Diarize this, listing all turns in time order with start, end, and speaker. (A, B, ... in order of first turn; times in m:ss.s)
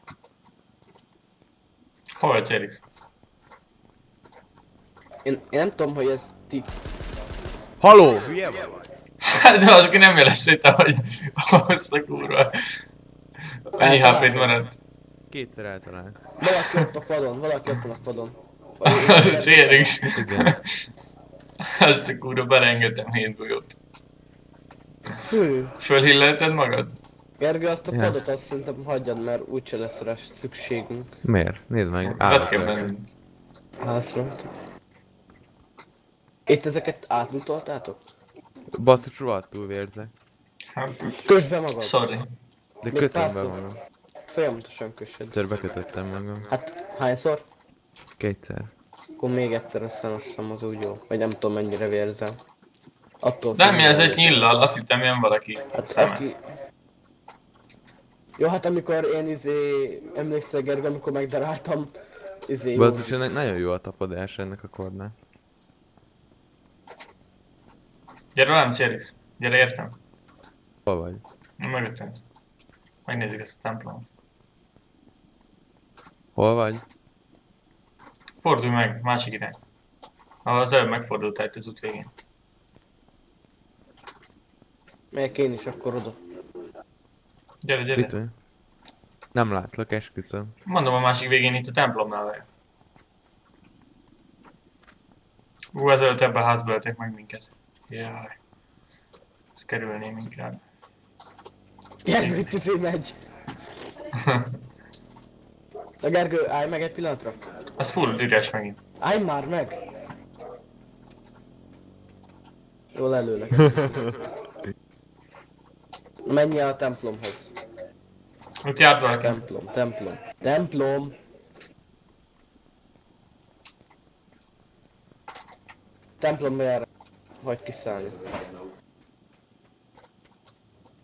0:02.2-0:02.8 A
0:05.2-0:06.7 B
0:07.8-0:08.8 C
0:09.2-0:12.8 A
0:13.7-0:14.8 A
0:13.8-0:14.6 B
0:15.3-0:16.2 C
0:16.4-0:20.0 B
0:18.8-0:20.9 A
0:20.1-0:20.6 C
0:21.6-0:23.8 A
0:25.3-0:25.7 B
0:25.8-0:26.9 A
0:27.4-0:31.1 B
0:27.9-0:28.2 C
0:31.2-0:32.9 C
0:32.0-0:33.1 A
0:33.8-0:34.5 B
0:36.5-0:38.0 B
0:38.8-0:40.1 C
0:40.7-0:41.2 A
0:41.2-0:42.2 B
0:41.8-0:42.3 A
0:42.8-0:43.8 C
0:42.9-0:43.6 B
0:44.3-0:45.4 B
0:45.3-0:46.5 C
0:46.5-0:47.4 B
0:48.2-0:48.7 C
0:49.2-0:52.4 B
0:53.2-0:54.4 B
0:53.6-0:56.3 A
0:55.8-0:56.4 B
0:58.4-1:01.9 B
1:02.5-1:03.1 B
1:02.7-1:05.2 C
1:08.4-1:10.0 A
1:10.9-1:11.2 C
1:11.6-1:12.2 A
1:13.1-1:14.1 A
1:16.4-1:16.8 C
1:18.4-1:19.6 A
1:20.4-1:22.1 A
1:25.1-1:26.2 B
1:27.6-1:28.1 A
1:28.0-1:28.3 C
1:29.3-1:30.5 C
1:30.7-1:32.4 A
1:35.7-1:38.4 A
1:39.6-1:40.6 A
1:42.0-1:43.2 B
1:44.2-1:44.5 A
1:46.0-1:47.4 B
1:47.8-1:48.8 A
1:49.0-1:49.8 B
1:52.9-1:54.3 B
1:56.2-1:57.5 B
1:58.6-1:59.4 A
1:59.1-2:01.2 B
2:06.2-2:06.9 B
2:07.4-2:08.2 B